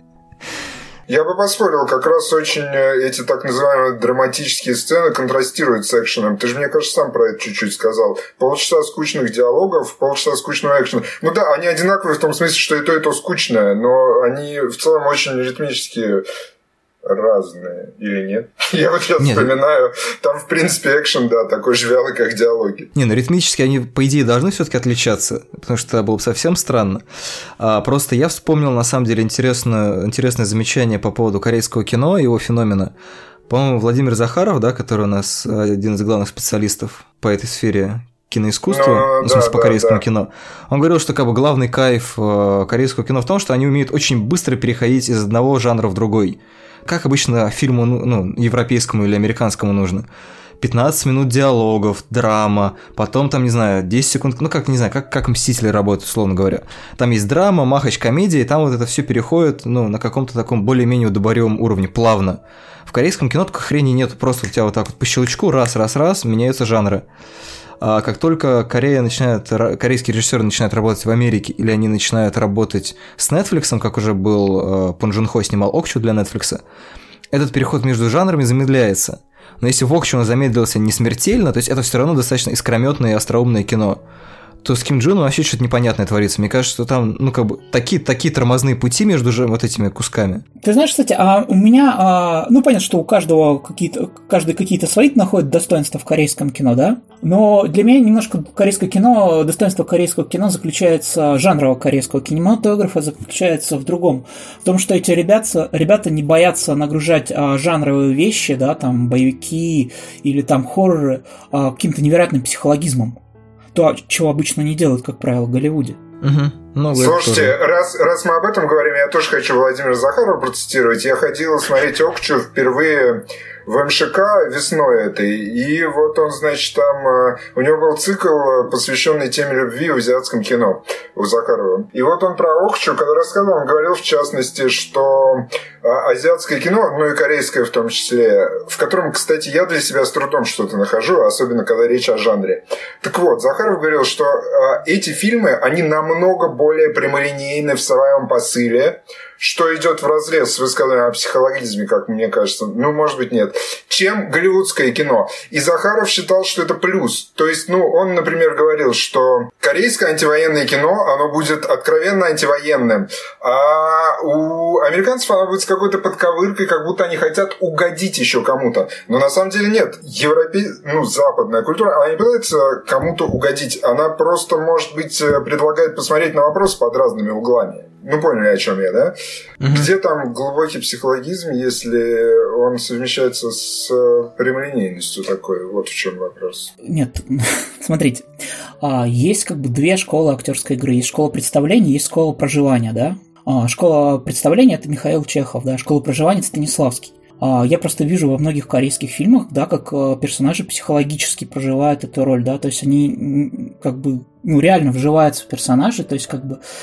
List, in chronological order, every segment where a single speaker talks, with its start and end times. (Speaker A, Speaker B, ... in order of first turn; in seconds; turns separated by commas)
Speaker A: 1.1-16.2, Speaker A: 17.0-22.9, Speaker B: 19.2-19.5, Speaker B: 22.9-27.0, Speaker B: 27.6-32.9, Speaker B: 33.5-50.0, Speaker A: 38.7-40.0, Speaker B: 50.6-67.0, Speaker B: 67.8-76.6, Speaker B: 77.3-84.0, Speaker B: 84.6-90.4, Speaker C: 90.6-113.2, Speaker C: 113.7-116.0, Speaker B: 116.2-117.5, Speaker A: 116.9-179.1, Speaker B: 179.6-179.9, Speaker A: 179.7-186.7, Speaker C: 186.8-188.2, Speaker C: 188.8-206.6